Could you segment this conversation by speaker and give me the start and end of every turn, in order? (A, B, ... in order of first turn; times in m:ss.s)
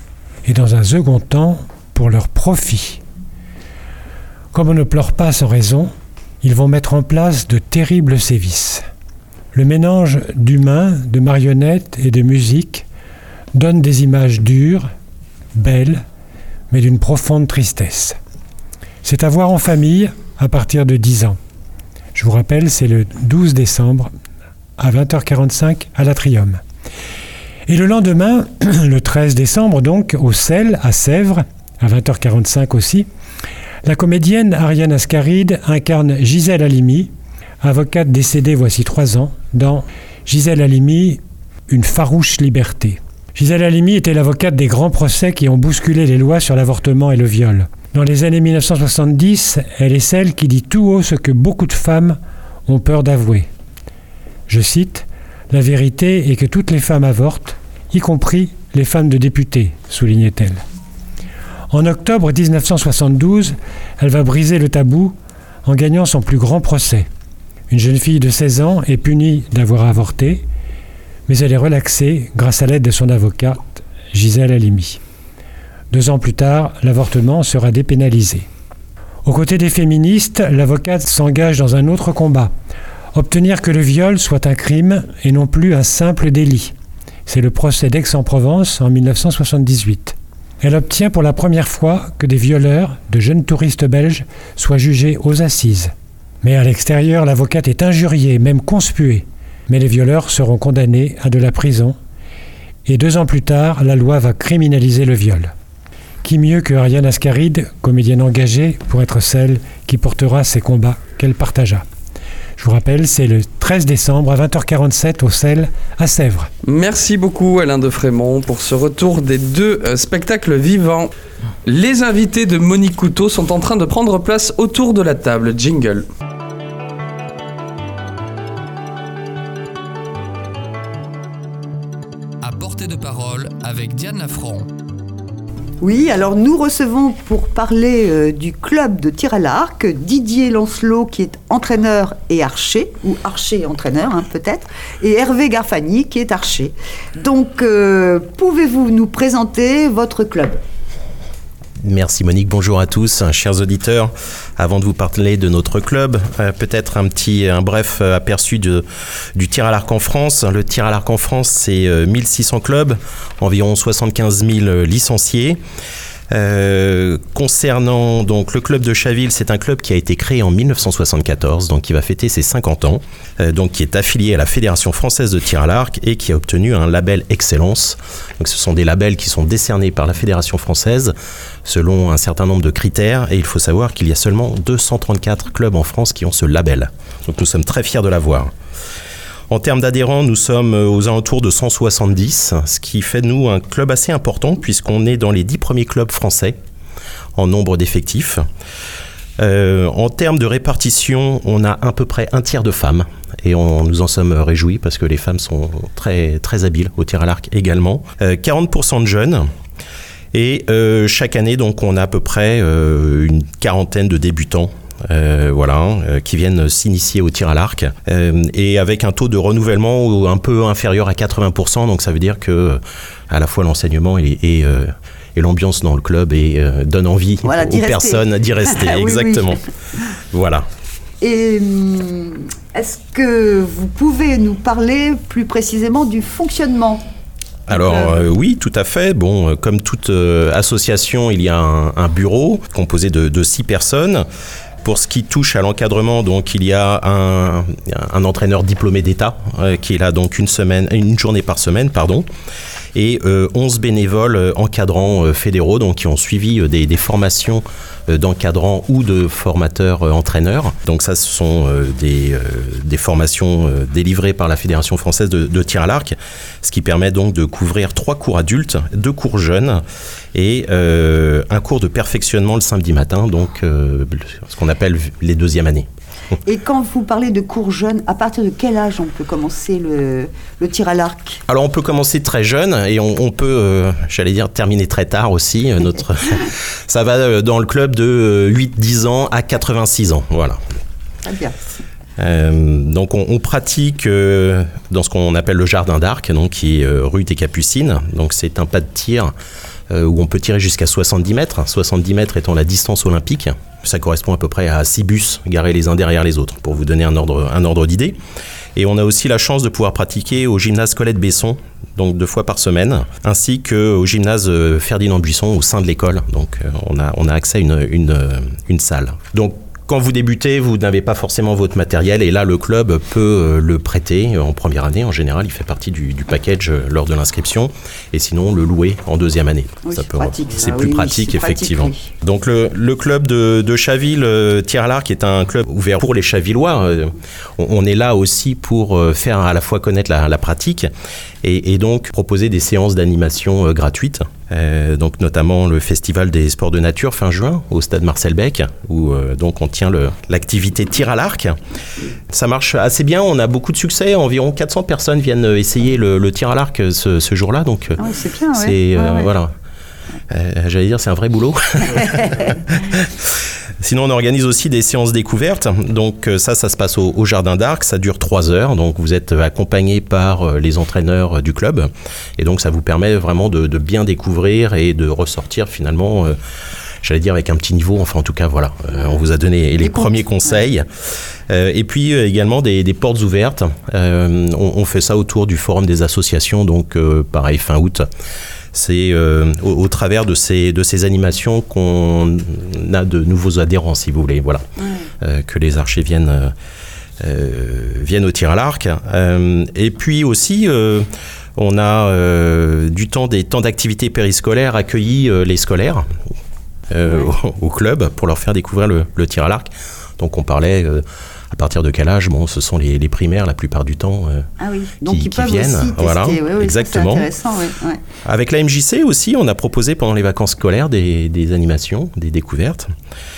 0:00.4-0:03.0 A
0:04.5-0:08.9 A
0:09.5-0:12.9 A
0:13.6-0:14.9 A
0:15.6-0:16.0 A
0:16.7-0:18.2 A
0:19.0-0:21.4 A
0:22.2-0:24.1 A
0:24.8-0:26.6 A
0:27.7-0:33.1 A
0:33.8-0:37.1 A
0:37.6-0:53.5 A
0:54.5-1:00.6 A
1:01.7-1:07.1 A
1:07.7-1:10.5 A
1:11.3-1:15.0 A
1:15.9-1:18.5 A
1:19.2-1:22.5 A
1:23.1-1:26.7 A
1:27.3-1:42.0 A
1:42.9-1:45.5 A
1:46.2-1:51.8 A
1:52.6-1:56.5 A
1:56.7-2:01.1 B
2:01.7-2:06.1 B
2:12.4-2:14.7 C
2:15.8-2:30.6 D
2:31.8-2:45.6 E
2:46.3-3:01.1 E
3:01.6-3:08.5 E
3:09.5-3:16.6 E
3:17.4-3:18.4 E
3:19.4-3:29.5 E
3:30.3-3:49.6 E
3:47.4-3:49.6 D
3:50.3-3:50.7 E
3:51.2-3:57.0 D
3:57.7-4:04.2 E
3:57.7-3:58.2 D
4:04.8-4:12.3 E
4:13.0-4:29.8 E
4:30.3-4:35.9 E
4:36.4-4:41.4 D
4:41.5-4:50.6 E
4:51.2-4:51.7 D
4:52.2-4:59.3 E
4:59.9-5:08.2 E
5:08.8-5:40.9 E
5:29.8-5:32.1 D
5:41.4-5:51.6 E
5:52.3-5:58.0 E
5:58.0-5:59.3 D
5:58.6-5:59.5 E
6:00.3-6:16.4 E
6:01.9-6:02.6 D
6:17.0-6:20.9 E
6:18.9-6:19.2 D
6:19.8-6:20.7 D
6:21.5-6:28.1 E
6:28.7-6:34.6 E
6:34.8-6:35.1 D
6:35.2-6:36.5 E
6:37.2-6:46.1 E
6:46.9-6:54.5 E
6:47.0-6:47.3 D
6:54.6-6:58.0 D
6:55.1-6:57.3 E
6:58.2-7:02.9 E